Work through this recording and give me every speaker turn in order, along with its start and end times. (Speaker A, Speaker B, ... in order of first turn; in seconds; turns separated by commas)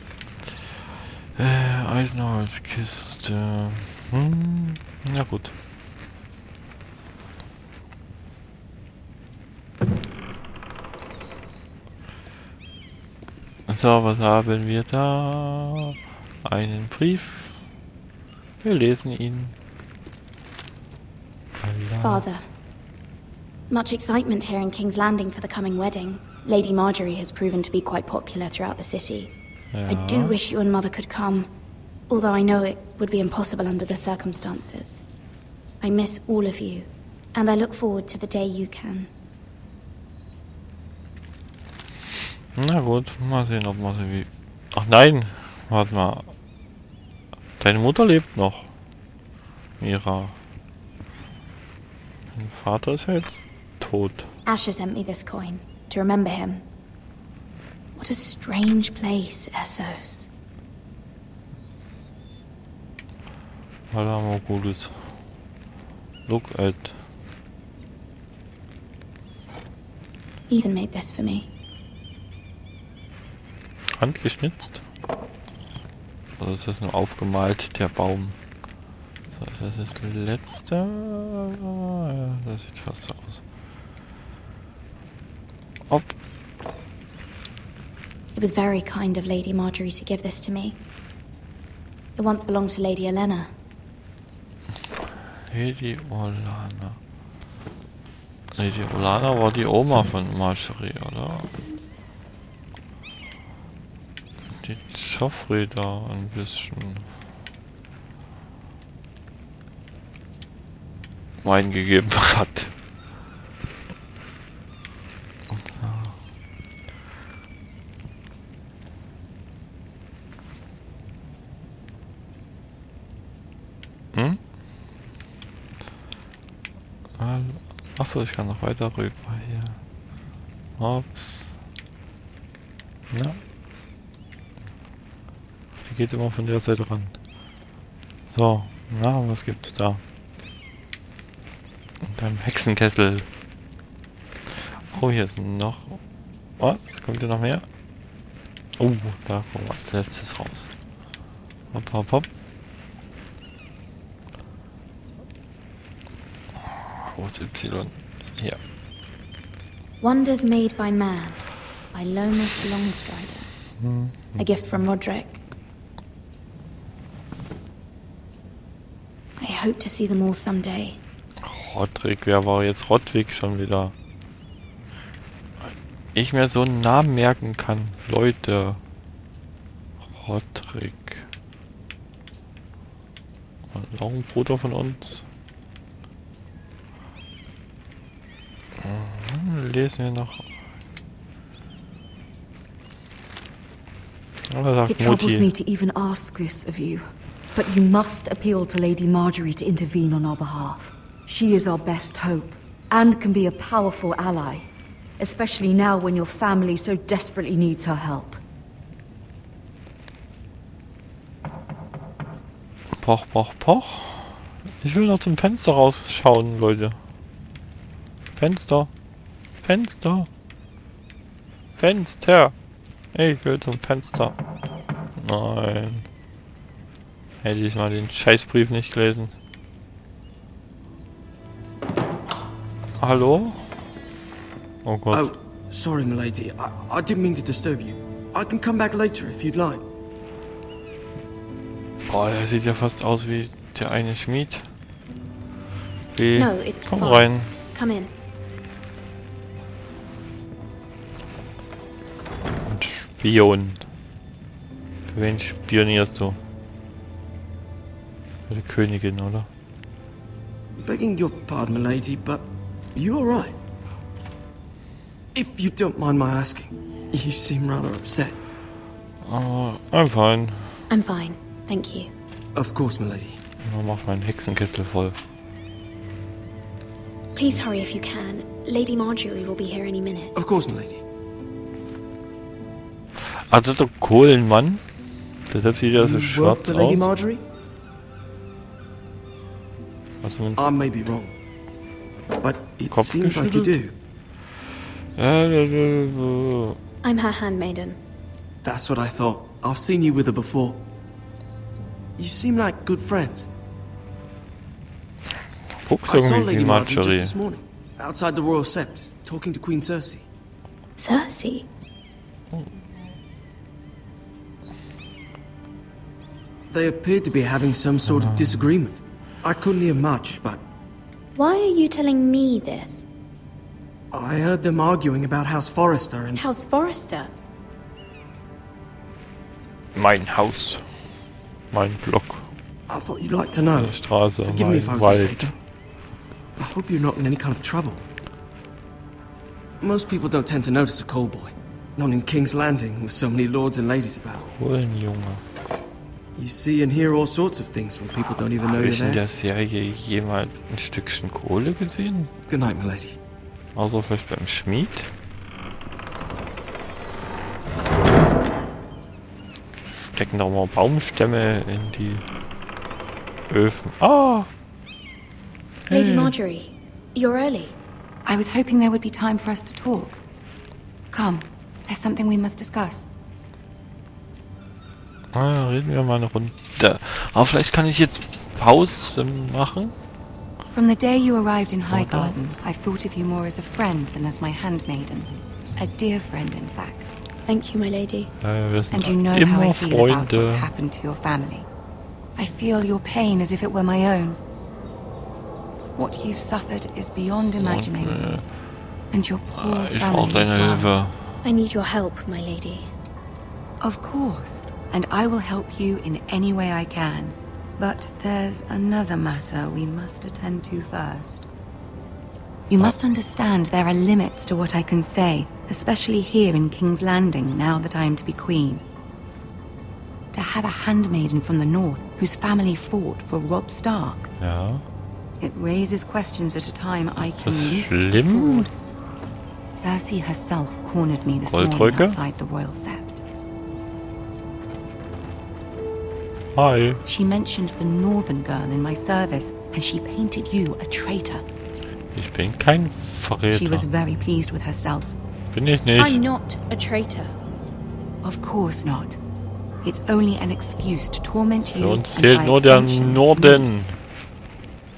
Speaker A: 1.4-5.6, Speaker A: 13.7-17.6, Speaker A: 18.6-19.5, Speaker A: 21.6-22.2, Speaker B: 22.0-22.4, Speaker B: 23.7-29.3, Speaker A: 29.7-30.4, Speaker B: 29.9-31.5, Speaker B: 32.1-35.0, Speaker B: 35.8-39.1, Speaker A: 42.6-46.3, Speaker A: 47.6-48.7, Speaker A: 49.8-50.4, Speaker A: 52.3-54.3, Speaker B: 54.5-56.6, Speaker B: 58.0-60.3, Speaker A: 63.9-65.2, Speaker A: 66.3-67.0, Speaker B: 70.5-71.5, Speaker A: 74.0-74.8, Speaker A: 76.4-78.4, Speaker A: 79.3-83.4, Speaker A: 85.9-86.2, Speaker B: 88.3-90.8, Speaker B: 92.2-93.5, Speaker A: 95.5-97.0, Speaker A: 98.5-101.5, Speaker A: 104.6-107.1, Speaker A: 111.4-112.7, Speaker A: 115.5-116.2, Speaker A: 124.1-124.4, Speaker A: 127.2-129.8, Speaker A: 130.8-131.6, Speaker A: 133.1-133.4, Speaker A: 135.8-137.2, Speaker A: 138.3-140.0, Speaker A: 142.0-143.3, Speaker A: 144.6-146.0, Speaker A: 146.6-147.7, Speaker A: 148.8-150.7, Speaker A: 151.7-152.3, Speaker A: 156.8-158.6, Speaker B: 160.0-163.5, Speaker A: 163.8-164.5, Speaker B: 164.4-165.4, Speaker B: 169.4-171.0, Speaker A: 171.4-173.9, Speaker A: 175.6-178.8, Speaker A: 180.0-181.3, Speaker A: 183.7-185.3, Speaker A: 188.8-190.5, Speaker A: 194.5-195.5, Speaker C: 194.9-208.4, Speaker A: 213.0-217.0, Speaker A: 218.4-218.9, Speaker A: 219.6-220.3, Speaker A: 221.8-222.5, Speaker A: 223.1-224.3, Speaker A: 225.2-226.1, Speaker A: 227.4-229.3, Speaker A: 233.0-233.8, Speaker A: 234.8-235.3, Speaker D: 235.1-239.8, Speaker A: 242.1-244.7, Speaker A: 246.2-247.6, Speaker B: 246.3-248.1, Speaker A: 252.7-253.9, Speaker A: 255.1-256.4, Speaker A: 258.5-259.5, Speaker D: 260.8-262.4, Speaker D: 263.0-263.6, Speaker D: 265.3-268.4, Speaker A: 269.2-270.8, Speaker B: 270.9-272.1, Speaker D: 272.6-273.4, Speaker A: 273.6-275.2, Speaker B: 277.4-280.4, Speaker D: 280.4-281.0, Speaker A: 283.4-284.9, Speaker A: 285.5-287.1, Speaker D: 286.0-287.4, Speaker A: 290.2-290.6, Speaker D: 290.6-291.4, Speaker D: 292.4-293.9, Speaker A: 292.9-293.8, Speaker A: 295.1-296.8, Speaker B: 297.0-298.0, Speaker D: 298.6-300.8, Speaker D: 302.2-303.5, Speaker A: 305.8-307.4, Speaker D: 306.0-310.2, Speaker B: 311.0-311.7, Speaker A: 312.5-312.8, Speaker D: 316.7-320.6, Speaker A: 318.1-318.7, Speaker B: 321.4-323.1, Speaker D: 324.1-326.5, Speaker B: 326.4-327.3, Speaker A: 329.9-331.2, Speaker A: 331.7-332.5, Speaker D: 332.9-335.5, Speaker A: 333.7-335.5, Speaker D: 336.6-338.1, Speaker D: 339.8-344.5, Speaker A: 344.4-345.4, Speaker D: 346.4-349.2, Speaker A: 348.6-352.3, Speaker D: 352.5-353.2, Speaker A: 353.8-355.1, Speaker A: 359.9-362.2, Speaker A: 363.5-364.5, Speaker B: 365.9-367.8, Speaker A: 365.9-366.4, Speaker E: 368.2-370.2, Speaker E: 371.1-373.1, Speaker A: 375.3-379.9, Speaker E: 380.7-387.1, Speaker A: 381.9-382.4, Speaker B: 387.4-388.3, Speaker A: 388.4-390.7, Speaker E: 388.9-391.7, Speaker E: 392.4-394.4, Speaker E: 395.9-398.4, Speaker A: 397.6-398.5, Speaker E: 399.1-400.9, Speaker A: 399.5-401.4, Speaker B: 401.4-402.9, Speaker E: 403.8-411.5, Speaker E: 412.7-418.8, Speaker E: 420.3-424.3, Speaker A: 424.4-424.8, Speaker E: 425.4-428.7, Speaker A: 427.2-428.7, Speaker E: 429.7-433.2, Speaker A: 431.5-432.2, Speaker A: 436.5-437.0, Speaker E: 437.0-441.4, Speaker A: 442.1-443.9, Speaker E: 443.5-445.1, Speaker A: 445.5-446.2, Speaker B: 446.0-447.3, Speaker E: 448.2-449.2, Speaker E: 449.8-453.7, Speaker A: 451.7-454.0